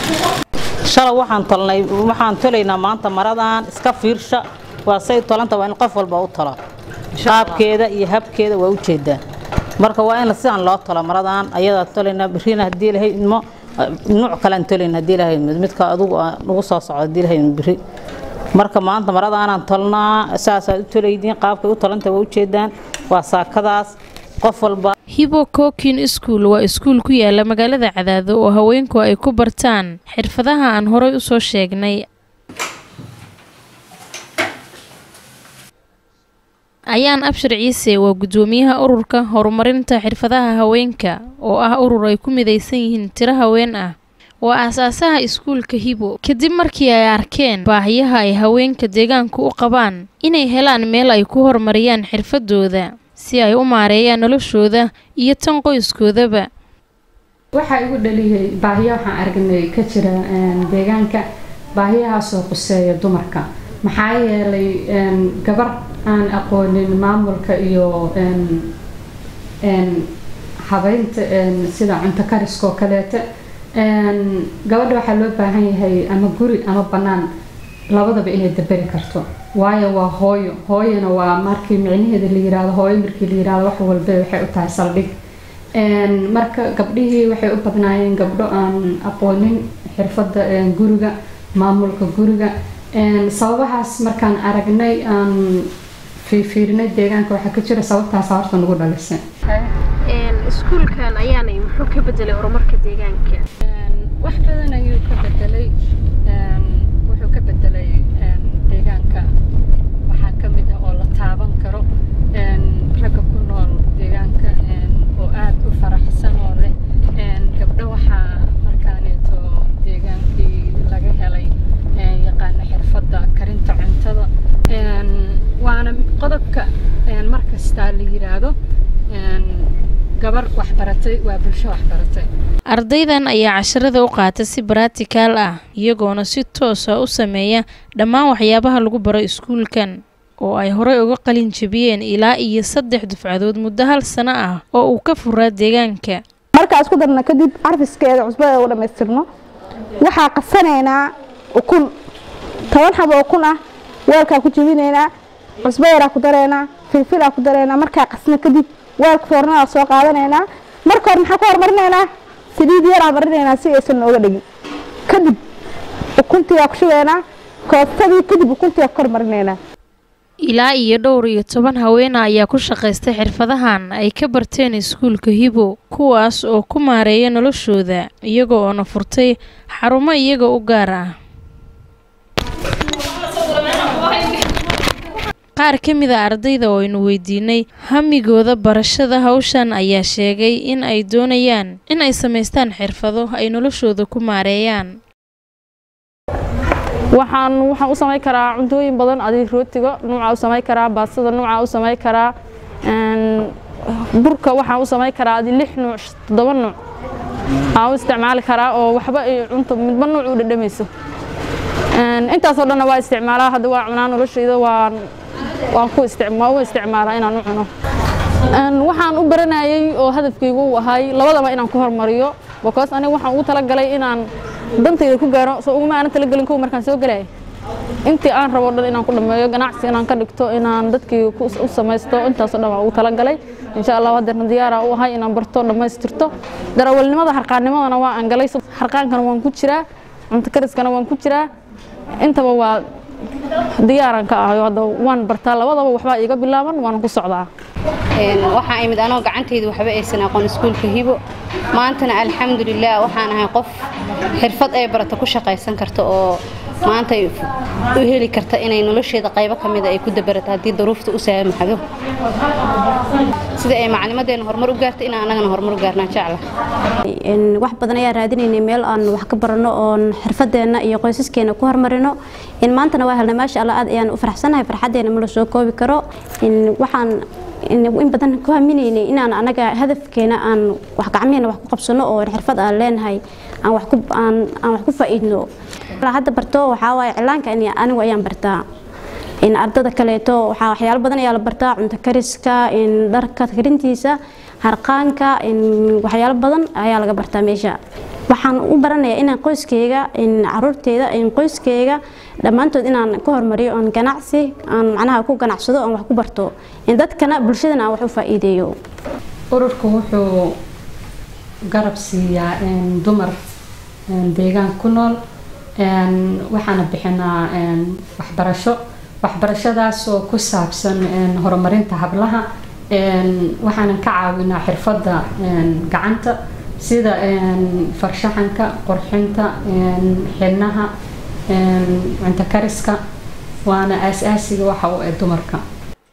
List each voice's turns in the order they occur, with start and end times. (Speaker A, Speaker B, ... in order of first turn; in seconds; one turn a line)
Speaker A: 0.9-6.6
Speaker A: 7.2-9.2
Speaker B: 7.2-7.5
Speaker A: 9.8-17.8
Speaker A: 18.6-24.9
Speaker C: 25.1-32.0
Speaker C: 36.9-43.9
Speaker C: 44.4-56.5
Speaker D: 57.5-61.2
Speaker D: 61.8-68.7
Speaker D: 69.7-70.1
Speaker D: 70.7-73.2
Speaker D: 73.8-77.3
Speaker D: 77.9-85.1
Speaker D: 85.8-95.7
Speaker D: 96.2-99.2
Speaker E: 100.1-103.4
Speaker D: 103.7-105.7
Speaker D: 106.3-109.3
Speaker D: 110.1-128.5
Speaker D: 129.1-129.7
Speaker D: 130.2-132.3
Speaker C: 132.7-146.2
Speaker F: 146.6-149.3
Speaker F: 150.0-151.9
Speaker F: 152.7-155.1
Speaker F: 155.6-164.4
Speaker F: 165.1-165.4
Speaker F: 166.2-169.6
Speaker C: 170.4-181.1
Speaker C: 185.6-194.9
Speaker G: 197.1-202.3
Speaker G: 202.8-206.8
Speaker G: 207.7-210.9
Speaker G: 211.9-215.0
Speaker G: 215.7-217.7
Speaker G: 218.5-224.3
Speaker G: 224.8-227.3
Speaker G: 228.1-241.5
Speaker G: 242.2-242.8
Speaker G: 243.8-247.5
Speaker B: 248.2-251.2
Speaker B: 251.8-253.8
Speaker B: 254.4-256.3
Speaker B: 256.8-261.8
Speaker B: 263.6-266.4
Speaker H: 267.3-277.1
Speaker H: 277.7-285.4
Speaker H: 286.0-288.6
Speaker H: 289.5-297.8
Speaker H: 298.3-308.7
Speaker D: 309.5-310.3
Speaker D: 311.7-313.4
Speaker D: 314.1-315.1
Speaker D: 315.8-330.9
Speaker D: 331.5-333.0
Speaker D: 333.7-335.6